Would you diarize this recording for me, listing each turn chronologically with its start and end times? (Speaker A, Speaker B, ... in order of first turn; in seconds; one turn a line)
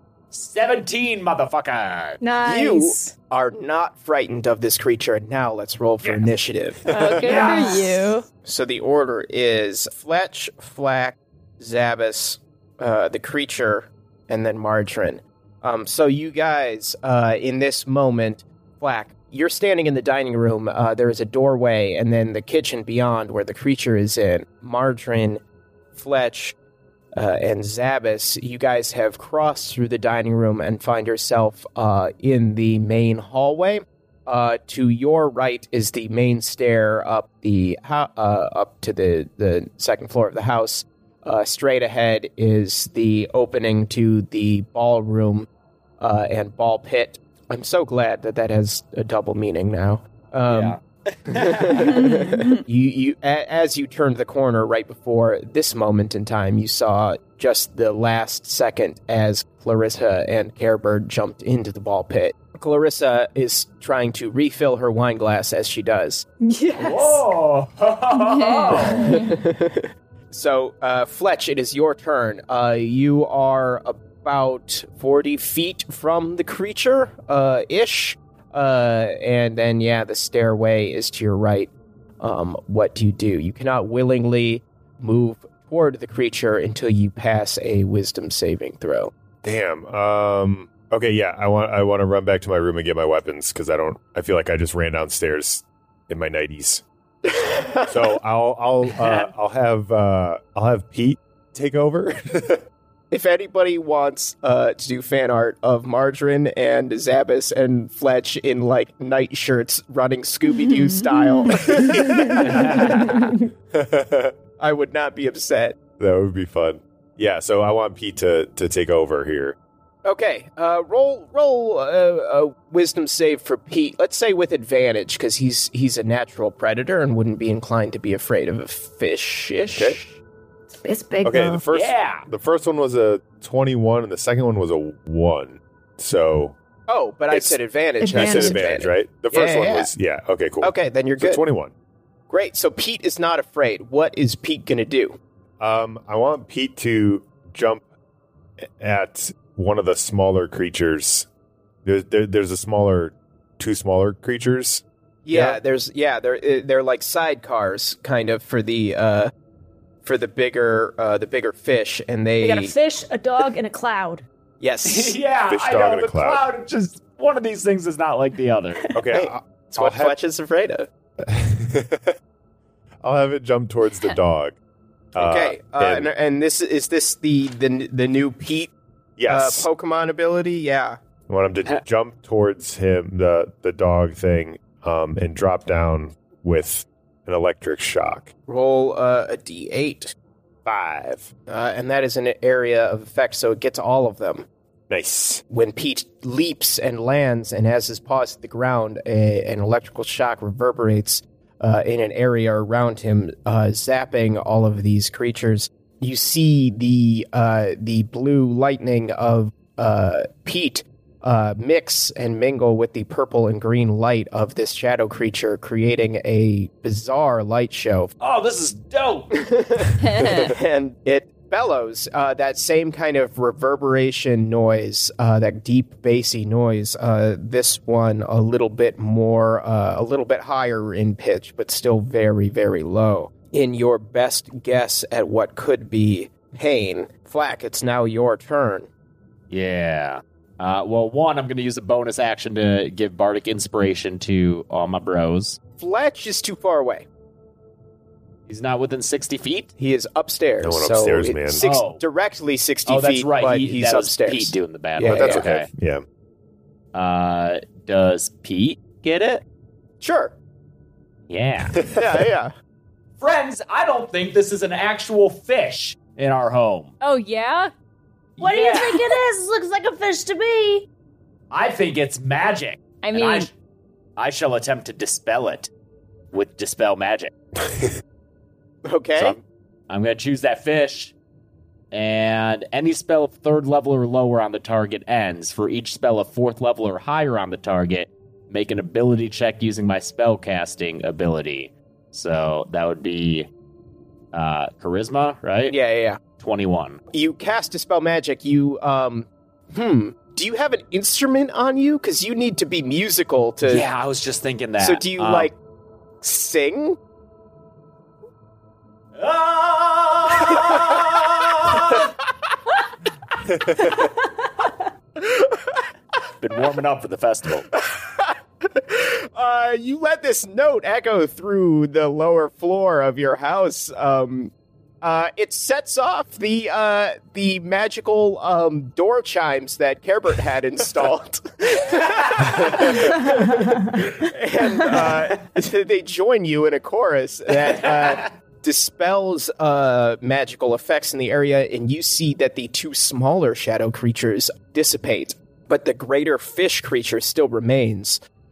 Speaker A: 0.3-2.2
Speaker B: 2.2-3.1
Speaker C: 2.4-6.9
Speaker D: 6.9-8.3
Speaker E: 6.9-7.3
Speaker A: 7.0-7.9
Speaker B: 7.3-7.8
Speaker C: 8.4-25.4
Speaker C: 25.9-26.6
Speaker C: 27.1-45.5
Speaker C: 46.0-50.8
Speaker A: 50.5-52.1
Speaker C: 51.3-66.3
Speaker D: 52.0-52.6
Speaker B: 66.4-67.2
Speaker A: 66.7-69.2
Speaker D: 68.2-69.3
Speaker B: 68.3-69.2
Speaker C: 69.1-89.1
Speaker E: 89.4-96.8
Speaker C: 97.4-97.9
Speaker E: 97.9-102.6
Speaker A: 98.9-99.3
Speaker C: 103.1-112.2
Speaker D: 110.6-111.5
Speaker E: 111.5-113.2
Speaker B: 111.7-113.3
Speaker A: 112.4-113.2
Speaker E: 113.7-114.3
Speaker C: 114.6-115.8
Speaker E: 116.0-119.6
Speaker C: 120.0-130.2
Speaker B: 130.8-131.6
Speaker E: 131.2-136.6
Speaker A: 131.7-132.2
Speaker C: 136.9-139.9
Speaker E: 137.3-137.6
Speaker B: 138.0-138.7
Speaker E: 138.1-141.7
Speaker C: 140.6-141.4
Speaker C: 142.3-145.2
Speaker E: 145.6-147.8
Speaker E: 148.7-151.3
Speaker E: 151.8-155.6
Speaker C: 155.2-159.3
Speaker C: 160.0-162.7
Speaker B: 162.4-164.2
Speaker C: 164.6-165.2
Speaker A: 164.9-168.8
Speaker E: 165.5-166.4
Speaker E: 168.9-170.2
Speaker C: 169.1-170.9
Speaker E: 171.2-172.2
Speaker E: 173.0-174.6
Speaker E: 175.1-176.1
Speaker C: 175.2-178.7
Speaker E: 179.2-179.7
Speaker C: 179.3-181.0
Speaker E: 181.3-188.3
Speaker C: 188.5-190.2
Speaker E: 190.7-191.3
Speaker C: 191.5-194.5
Speaker E: 194.9-195.4
Speaker C: 195.5-218.1
Speaker A: 218.2-219.3
Speaker C: 219.3-238.9
Speaker D: 220.0-220.5
Speaker A: 239.5-245.6
Speaker C: 245.8-247.1
Speaker A: 248.5-249.7
Speaker C: 249.8-255.5
Speaker E: 250.6-251.6
Speaker A: 251.6-252.0
Speaker A: 252.9-255.7
Speaker E: 255.1-256.0
Speaker A: 256.9-259.4
Speaker C: 260.0-260.3
Speaker A: 261.3-261.8
Speaker C: 261.9-262.5
Speaker A: 263.2-266.9
Speaker D: 267.0-267.7
Speaker A: 268.4-269.1
Speaker B: 268.4-270.9
Speaker A: 271.5-273.5
Speaker D: 273.0-273.5
Speaker A: 274.2-275.7
Speaker A: 276.3-277.3
Speaker E: 277.6-278.0
Speaker C: 278.9-279.4
Speaker A: 279.2-281.1
Speaker A: 281.9-293.5
Speaker A: 294.3-295.8
Speaker C: 295.7-296.2
Speaker A: 296.4-297.0
Speaker C: 297.1-303.9
Speaker A: 303.7-305.5
Speaker C: 304.8-305.6
Speaker C: 306.2-307.0
Speaker A: 309.1-312.1
Speaker C: 315.2-315.8
Speaker A: 316.4-317.7
Speaker C: 317.7-348.2
Speaker E: 332.6-332.9
Speaker B: 333.2-333.9